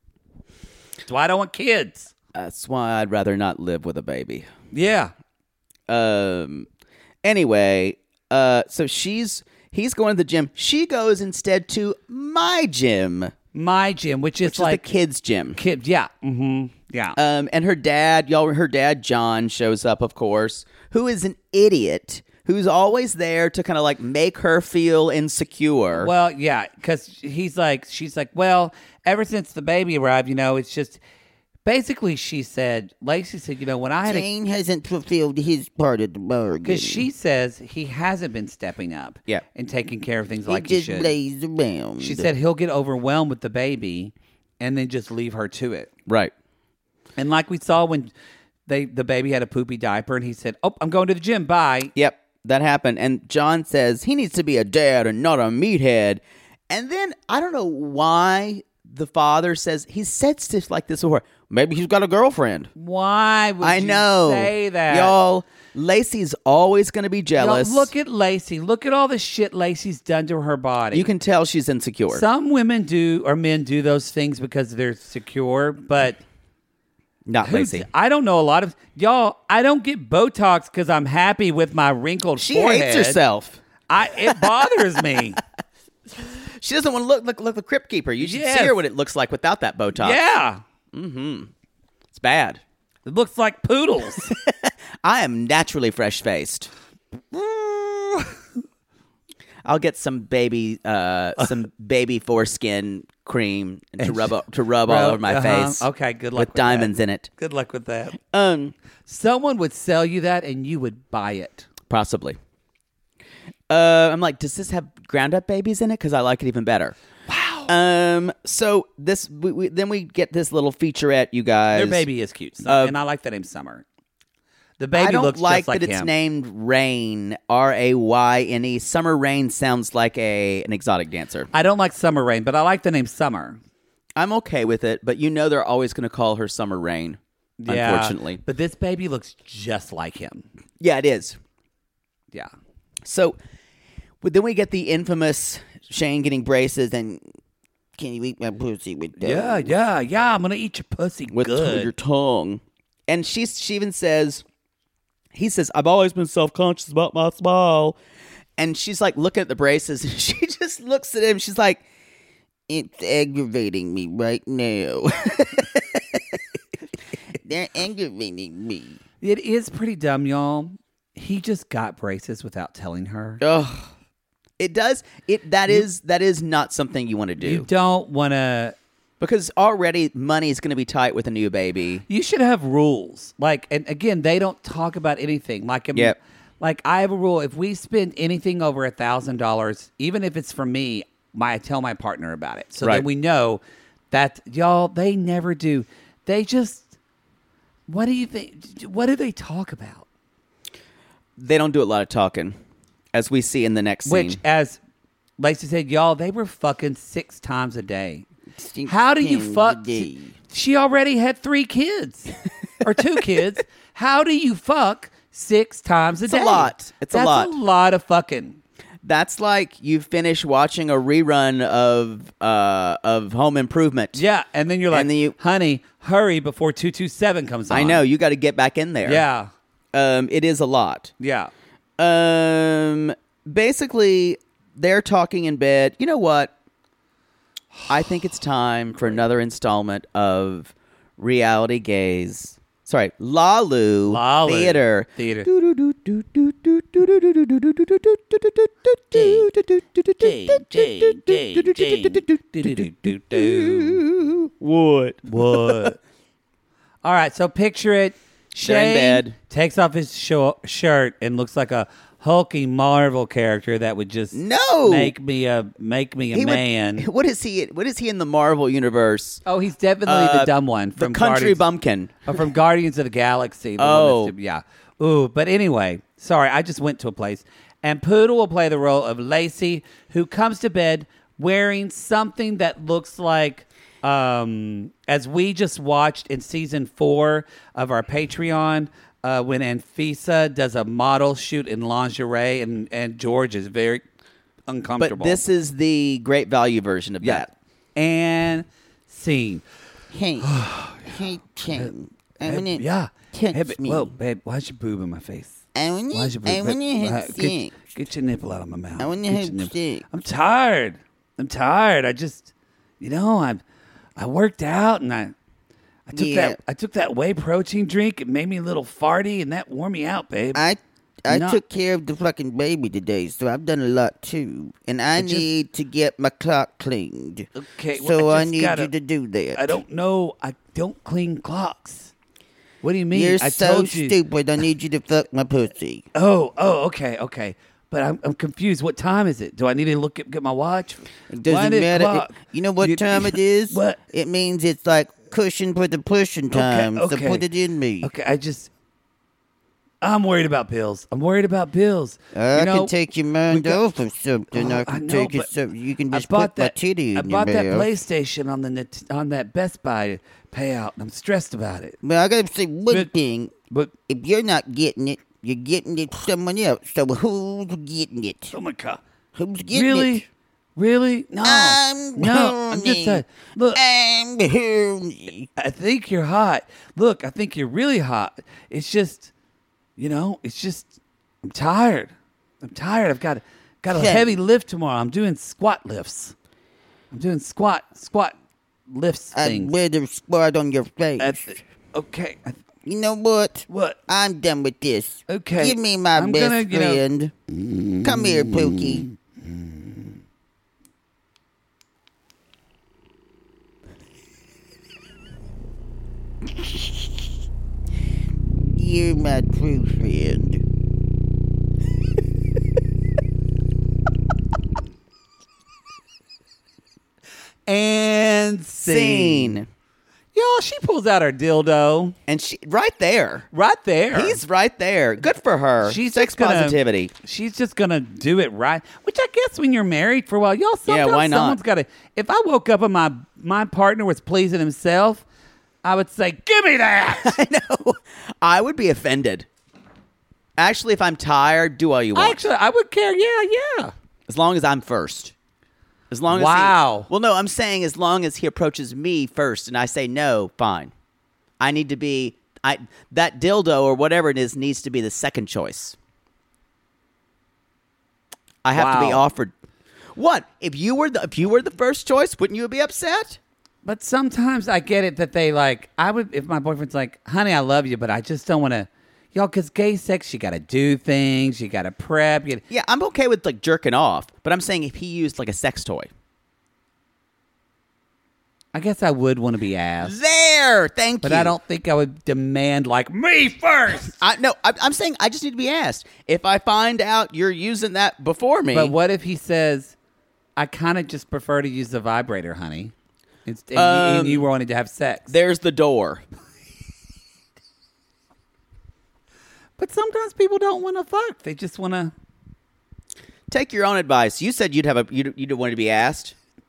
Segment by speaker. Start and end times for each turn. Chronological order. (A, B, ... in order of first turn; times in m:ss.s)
0:01.0-0:02.1 A
0:02.3-0:04.5 B
0:04.7-0:05.1 A
0:05.9-0:06.7 B
0:07.2-0:13.3 B
0:13.5-0:14.8 A
0:14.4-0:15.6 B
0:15.6-0:17.2 A
0:17.2-0:26.1 B
0:25.9-0:31.0 A
0:31.6-0:34.2 A
0:34.0-0:37.0 C
0:36.6-0:41.1 A
0:40.5-0:42.3 C
0:42.0-0:45.9 A
0:46.0-0:46.3 B
0:47.2-0:48.1 A
0:48.7-0:51.9 A
0:51.9-1:02.7 B
1:02.8-1:05.1 A
1:03.6-1:07.9 B
1:07.4-1:11.1 A
1:10.9-1:12.2 B
1:12.1-1:16.2 A
1:17.2-1:17.9 B
1:17.4-1:23.2 A
1:22.4-1:23.6 B
1:23.9-1:25.4 A
1:26.2-1:30.2 B
1:28.2-1:28.8 A
1:30.0-1:30.6 A
1:30.9-1:31.5 B
1:32.1-1:32.6 B
1:33.0-1:34.3 A
1:34.2-1:36.7 B
1:37.3-1:38.3 A
1:39.6-1:47.3 B
1:44.0-1:48.2 A
1:48.2-1:48.7 B
1:49.0-1:51.7 A
1:51.9-1:52.4 B
1:53.7-1:57.0 B
1:57.3-1:57.7 A
1:57.7-2:02.0 B
2:01.7-2:03.8 A
2:02.6-2:03.0 B
2:04.8-2:06.1 A
2:04.9-2:11.5 B
2:11.5-2:13.6 A
2:14.2-2:18.4 B
2:17.6-2:20.4 A
2:20.8-2:21.4 B
2:23.0-2:23.4 B
2:24.2-2:27.2 B
2:28.0-2:29.7 C
2:29.2-2:31.9 A
2:31.3-2:34.4 B
2:35.3-2:38.0 B
2:38.6-2:41.8 B
2:42.7-2:45.7 C
2:47.4-2:49.0 C
2:49.2-2:53.4 A
2:53.4-2:53.9 B
2:54.6-2:57.7 B
2:57.4-2:58.7 A
2:59.2-3:02.0 B
3:02.1-3:16.9 A
3:12.8-3:13.1 B
3:17.9-3:20.0 A
3:21.4-3:22.6 B
3:23.1-3:24.4 B
3:24.0-3:24.8 A
3:25.4-3:28.2 A
3:28.6-3:30.3 C
3:28.8-3:38.6 A
3:36.2-3:37.5 B
3:39.0-3:44.2 B
3:44.1-3:48.0 A
3:44.9-3:45.4 B
3:47.7-3:49.2 B
3:49.0-3:49.5 A
3:49.9-3:51.1 B
3:51.2-3:51.5 A
3:52.0-3:56.5 B
3:57.9-4:15.9 B
4:04.1-4:05.5 A
4:09.1-4:09.5 A
4:10.2-4:14.0 A
4:15.3-4:16.0 A
4:17.0-4:27.1 A
4:18.6-4:19.4 B
4:24.3-4:25.1 B
4:26.3-4:29.4 B
4:29.4-4:31.6 A
4:30.0-4:32.2 B
4:32.3-4:54.0 A
4:33.8-4:34.3 B
4:54.7-4:55.4 A
4:55.0-4:57.5 B
4:57.2-4:59.6 A
5:00.1-5:04.1 C
5:00.4-5:01.2 A
5:02.4-5:13.6 A
5:05.7-5:07.9 C
5:09.0-5:10.0 C
5:14.2-5:15.3 A
5:16.1-5:20.6 A
5:16.1-5:16.6 C
5:20.5-5:29.8 C
5:21.3-5:21.6 A
5:25.2-5:25.5 A
5:27.5-5:28.9 A
5:29.5-5:32.1 A
5:32.8-5:34.2 A
5:33.1-5:36.0 C
5:36.1-5:44.0 A
5:41.3-5:48.1 C
5:46.5-5:47.4 A
5:48.0-5:48.7 A
5:50.0-5:52.9 A
5:52.3-5:57.9 C
5:53.5-5:53.8 A
5:54.5-5:55.5 A
5:56.1-6:02.0 A
6:02.0-6:03.5 C
6:04.1-6:08.5 C
6:08.5-6:09.0 A
6:09.3-6:10.2 C
6:09.7-6:10.2 A
6:10.8-6:13.8 A
6:11.4-6:15.5 C
6:15.6-6:19.3 A
6:20.0-6:26.3 A
6:23.9-6:24.3 C
6:27.1-6:28.3 A
6:28.9-6:29.7 A
6:29.3-6:31.4 C
6:31.2-6:32.6 A
6:32.8-6:37.3 C
6:33.7-6:34.0 A
6:35.3-6:37.0 A
6:37.6-6:39.6 A
6:38.0-6:39.1 C
6:46.5-6:47.0 C
6:48.6-6:50.6 C
6:57.7-6:59.6 A
6:58.8-6:59.7 B
7:00.3-7:02.2 A
7:02.3-7:03.5 B
7:03.5-7:04.4 A
7:04.1-7:07.1 B
7:05.8-7:15.2 A
7:10.9-7:11.6 B
7:15.8-7:17.4 A
7:17.2-7:19.5 B
7:20.6-7:22.4 B
7:22.1-7:23.9 A
7:24.3-7:25.3 B
7:26.1-7:30.9 B
7:26.3-7:27.1 A
7:31.6-7:36.0 B
7:38.6-7:39.5 B
7:38.7-7:39.2 A
7:40.1-7:43.4 B
7:43.8-7:52.6 A
7:52.7-7:56.1 B
7:58.7-8:00.2 A
8:00.0-8:01.6 B
8:01.2-8:04.2 A
8:04.2-8:08.9 B
8:08.7-8:09.9 A
8:10.6-8:12.9 A
8:13.4-8:15.3 A
8:13.7-8:14.5 B
8:15.3-8:16.2 B
8:19.8-8:22.1 A
8:23.5-8:26.3 B